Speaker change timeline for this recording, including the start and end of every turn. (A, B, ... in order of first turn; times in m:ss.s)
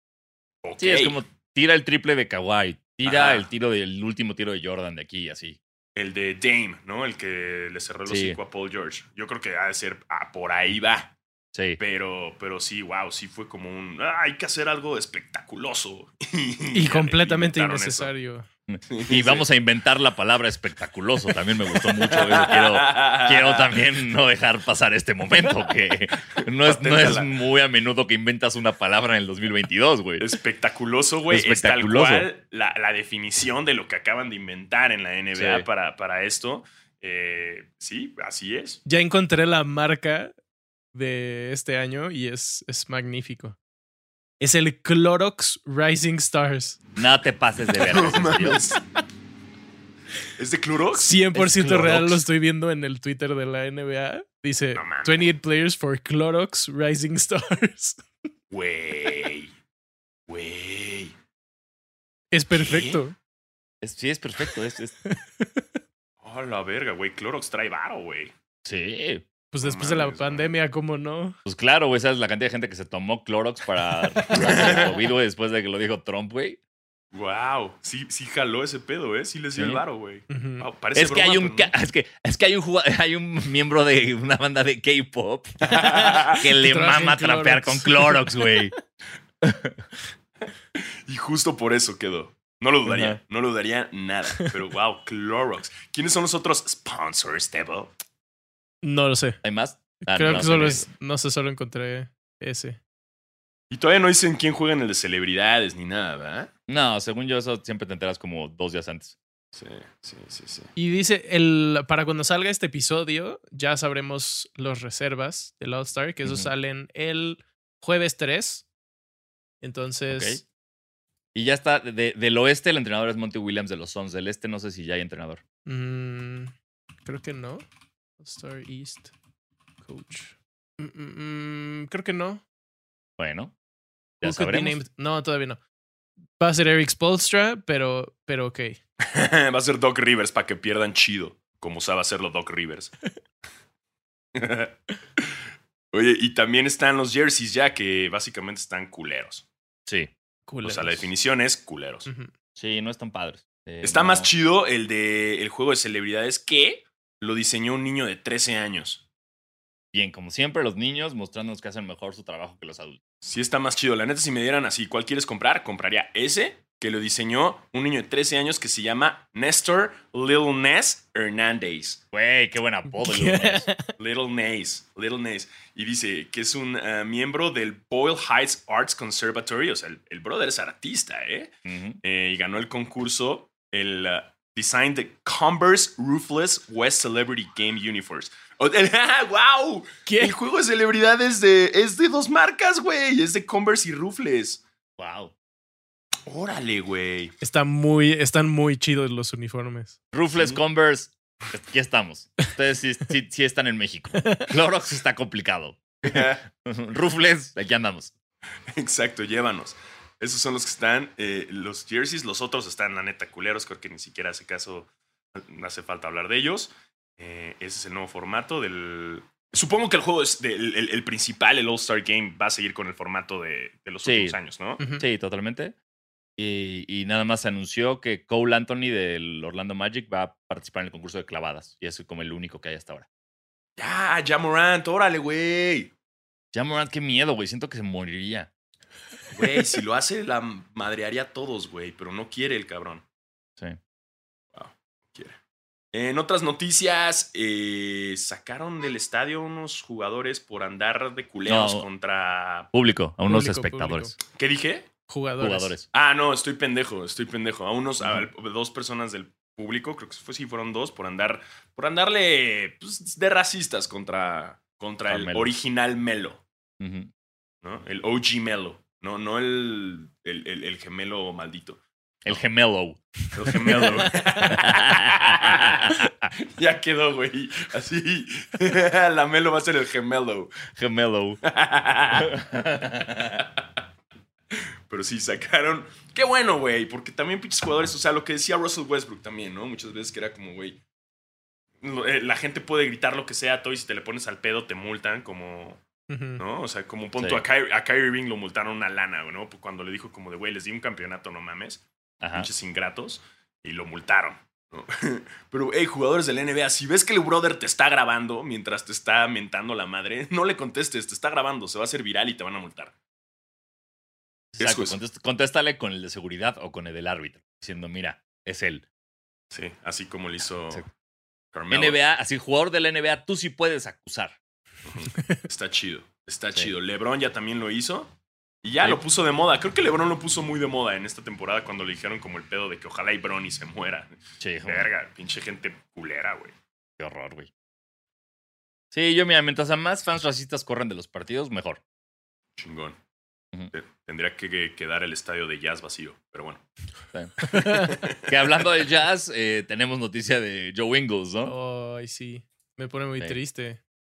0:00.6-0:01.2 A
0:00.8-0:05.6 B
0:03.0-0:03.5 A
0:06.0-0:11.2 A
0:08.1-0:08.4 B
0:11.5-0:11.8 B
0:11.8-0:18.1 A
0:16.7-0:18.5 C
0:18.7-0:30.3 B
0:18.9-0:19.5 A
0:21.8-0:23.8 A
0:26.4-0:27.3 A
0:30.2-0:38.8 A
0:31.3-0:32.3 B
0:35.3-0:35.7 B
0:38.9-0:40.3 C
0:40.9-0:43.6 C
0:44.4-0:46.8 C
0:47.0-0:48.7 B
0:47.8-0:48.8 A
0:50.4-0:51.2 A
0:51.0-0:58.0 C
0:51.3-0:52.2 B
0:54.8-0:55.3 A
0:58.5-0:59.5 A
1:00.3-1:01.1 A
1:02.3-1:03.2 C
1:02.5-1:03.0 A
1:03.8-1:04.9 B
1:05.0-1:05.7 C
1:06.2-1:08.3 A
1:08.6-1:09.2 B
1:09.5-1:11.4 C
1:09.6-1:10.5 A
1:11.5-1:16.6 B
1:14.3-1:15.0 A
1:17.1-1:21.7 A
1:19.6-1:19.8 B
1:20.3-1:20.7 C
1:21.0-1:25.7 B
1:25.6-1:26.4 A
1:25.7-1:28.7 C
1:26.3-1:28.7 B
1:29.4-1:29.8 B
1:30.8-1:37.9 A
1:32.9-1:33.2 B
1:38.8-1:39.4 C
1:39.4-1:40.9 B
1:40.0-1:42.8 C
1:43.7-1:46.5 A
1:46.7-1:49.2 B
1:49.5-1:50.7 A
1:50.8-1:58.7 C
1:56.2-1:56.5 B
1:59.6-2:00.4 C
2:00.1-2:00.4 B
2:01.3-2:05.4 B
2:05.7-2:06.5 C
2:07.0-2:07.6 C
2:08.2-2:09.1 C
2:09.8-2:12.4 C
2:13.2-2:13.5 B
2:14.2-2:14.8 B
2:14.2-2:15.6 C
2:16.4-2:18.8 C
2:19.0-2:22.9 A
2:24.4-2:25.3 A
2:25.9-2:29.5 A
2:29.9-2:30.1 B
2:30.5-2:31.1 C
2:30.6-2:32.1 A
2:32.1-2:32.3 C
2:32.6-2:34.3 B
2:33.8-2:39.0 A
2:39.9-2:43.0 B
2:43.2-2:52.0 A
2:52.1-2:53.7 B
2:52.9-2:53.9 C
2:54.0-3:14.6 A
3:01.6-3:02.0 B
3:10.1-3:10.4 C
3:15.0-3:15.3 B
3:16.3-3:17.4 A
3:17.4-3:20.0 C
3:20.1-3:28.1 B
3:24.2-3:24.5 C
3:26.0-3:26.4 A
3:28.7-3:44.8 A
3:44.0-3:44.4 B
3:44.8-3:45.1 C
3:45.0-3:45.8 B
3:46.4-3:53.1 B
3:53.8-3:55.9 A
3:56.5-3:58.5 B
3:59.3-4:03.0 A
4:04.6-4:05.4 A
4:05.9-4:12.7 A
4:11.5-4:11.9 B
4:12.7-4:14.1 B
4:13.3-4:14.2 C
4:14.3-4:14.9 A
4:15.1-4:15.8 C
4:15.4-4:15.9 B
4:15.9-4:26.4 A
4:18.0-4:18.3 B
4:25.1-4:25.5 B
4:26.8-4:27.1 B
4:27.6-4:32.4 A
4:32.2-4:36.3 B
4:33.3-4:40.6 A
4:34.1-4:34.5 C
4:40.8-4:41.4 B
4:41.4-4:42.4 A
4:42.2-4:43.4 B
4:43.4-4:43.7 A
4:44.5-4:50.8 A
4:51.8-4:55.8 A
4:56.1-4:56.4 C
4:56.4-5:12.9 A
4:57.2-4:57.4 B
5:02.2-5:02.5 B
5:14.5-5:18.8 B
5:14.6-5:15.0 A
5:19.5-5:20.9 A
5:21.5-5:22.0 A
5:21.7-5:24.4 B
5:24.8-5:36.6 A
5:25.2-5:25.4 C
5:34.4-5:34.9 B
5:37.0-5:37.5 B
5:38.9-5:41.8 B
5:42.6-5:43.0 A
5:43.7-5:46.6 A
5:47.1-5:51.5 B
5:47.4-5:48.0 C
5:47.6-5:48.6 A
5:51.4-5:53.8 C